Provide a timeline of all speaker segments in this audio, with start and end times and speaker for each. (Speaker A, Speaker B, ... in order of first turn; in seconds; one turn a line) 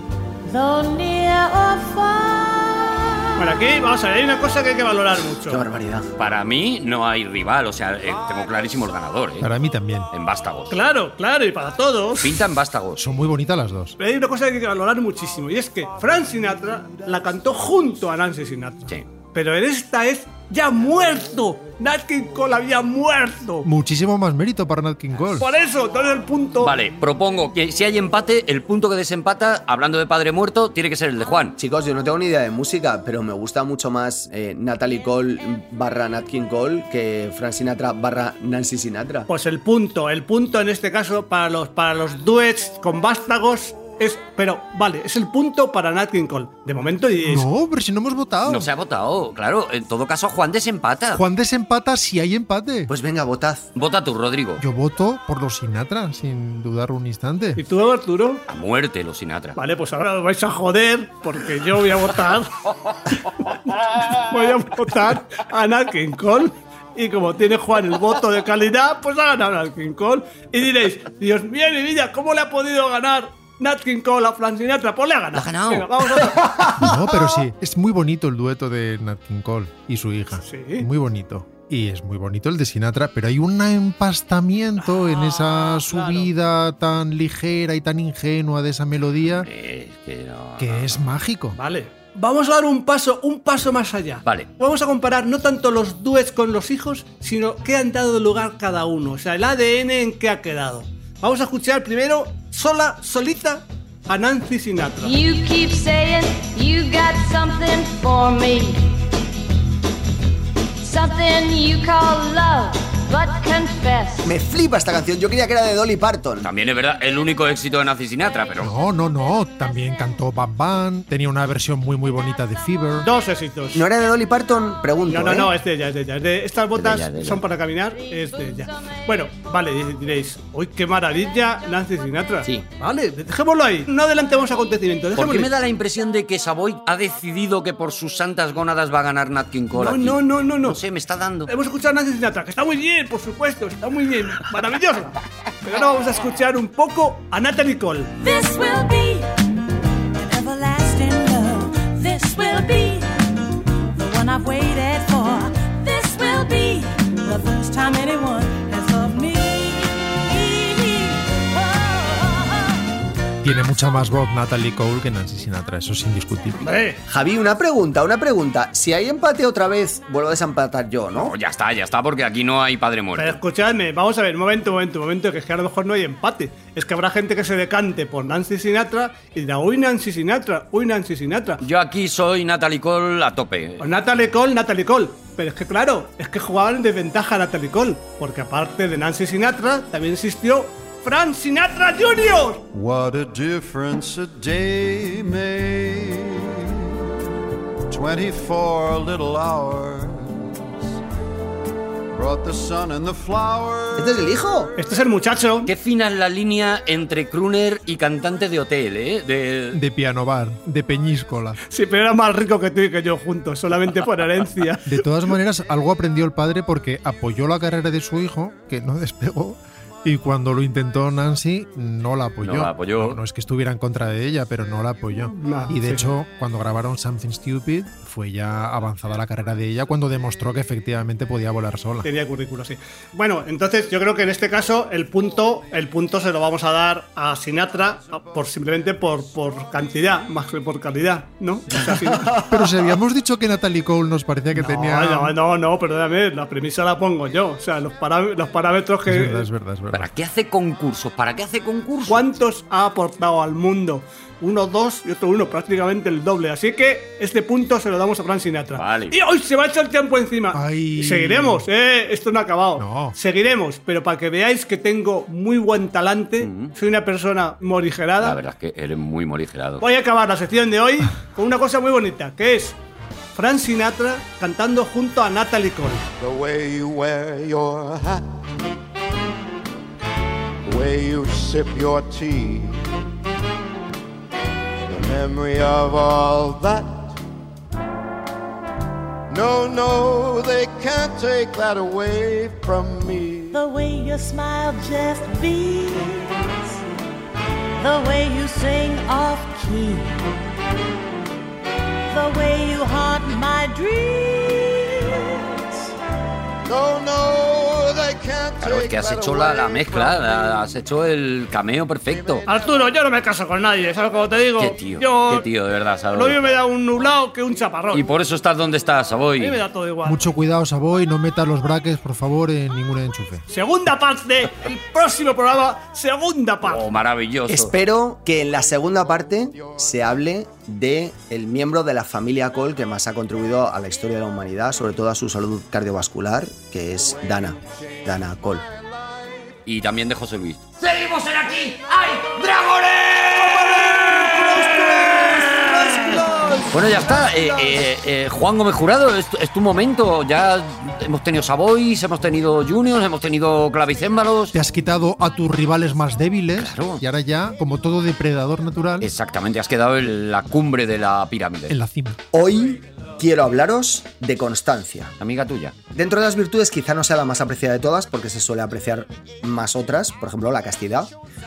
Speaker A: 0.5-3.6
Speaker B: 3.4-5.6
Speaker C: 5.5-6.1
Speaker D: 6.2-9.5
Speaker E: 9.4-10.1
Speaker D: 10.1-10.8
Speaker B: 10.7-12.3
Speaker D: 12.2-13.0
Speaker E: 13.0-14.0
Speaker B: 14.0-23.7
Speaker E: 23.6-25.5
Speaker B: 25.4-26.7
Speaker D: 26.6-31.6
Speaker C: 31.6-39.3
Speaker B: 39.3-47.5
Speaker E: 47.2-48.7
Speaker D: 48.5-51.2
Speaker E: 51.1-52.9
Speaker C: 52.9-53.7
Speaker D: 53.8-54.6
Speaker E: 54.6-57.6
Speaker B: 57.6-58.4
Speaker D: 58.5-59.6
Speaker B: 59.6-62.5
Speaker B: 63.1-76.8
Speaker D: 75.3-75.9
Speaker E: 76.8-89.5
Speaker B: 80.4-80.9
Speaker B: 84.8-86.3
Speaker D: 89.4-91.1
Speaker E: 90.6-91.6
Speaker B: 91.5-105.2
Speaker F: 105.0-108.8
Speaker F: 110.8-114.3
Speaker C: 114.2-116.5
Speaker D: 116.4-118.7
Speaker E: 118.6-123.1
Speaker B: 123.0-123.8
Speaker C: 123.7-125.5
Speaker B: 125.1-135.5
Speaker D: 126.7-127.4
Speaker D: 135.2-141.5
Speaker B: 139.8-140.8
Speaker B: 141.5-148.1
Speaker A: 148.2-149.3
Speaker A: 150.2-153.4
Speaker A: 153.9-162.8
Speaker E: 163.4-166.8
Speaker B: 166.6-167.0
Speaker C: 167.1-171.3
Speaker D: 171.1-173.4
Speaker B: 173.2-181.6
Speaker D: 181.6-183.8
Speaker B: 183.8-192.6
Speaker G: 192.7-196.9
Speaker G: 197.9-200.7
Speaker G: 202.1-204.4
Speaker C: 203.9-204.7
Speaker B: 204.8-205.7
Speaker D: 205.6-209.8
Speaker E: 209.7-211.6
Speaker B: 211.7-215.0
Speaker E: 214.9-232.1
Speaker D: 222.4-223.2
Speaker B: 225.2-226.1
Speaker B: 232.0-242.3
Speaker C: 241.8-242.8
Speaker E: 242.5-245.3
Speaker B: 244.5-249.4
Speaker E: 249.1-250.1
Speaker D: 249.9-252.2
Speaker B: 252.1-268.4
Speaker D: 258.7-259.1
Speaker E: 260.5-261.6
Speaker E: 262.8-263.1
Speaker D: 266.4-266.7
Speaker D: 268.2-269.8
Speaker B: 269.8-272.8
Speaker B: 273.3-276.1
Speaker G: 276.2-278.2
Speaker G: 280.6-282.8
Speaker G: 284.9-287.1
Speaker G: 289.3-293.6
Speaker A: 293.5-296.6
Speaker A: 297.8-300.3
Speaker A: 302.1-305.6
Speaker G: 306.6-310.8
Speaker D: 308.6-312.4
Speaker G: 312.1-312.9
Speaker B: 312.5-315.4
Speaker D: 314.6-316.4
Speaker B: 316.1-318.1
Speaker D: 317.9-319.6
Speaker B: 319.4-320.2
Speaker E: 320.0-323.4
Speaker B: 323.5-326.9
Speaker D: 326.6-327.7
Speaker C: 327.5-338.6
Speaker D: 339.6-344.6
Speaker G: 343.7-347.8
Speaker D: 346.7-354.5
Speaker E: 354.5-359.1
Speaker D: 356.6-357.0
Speaker D: 359.0-361.7
Speaker E: 361.7-362.2
Speaker C: 362.3-365.1
Speaker D: 365.2-365.7
Speaker C: 365.9-371.1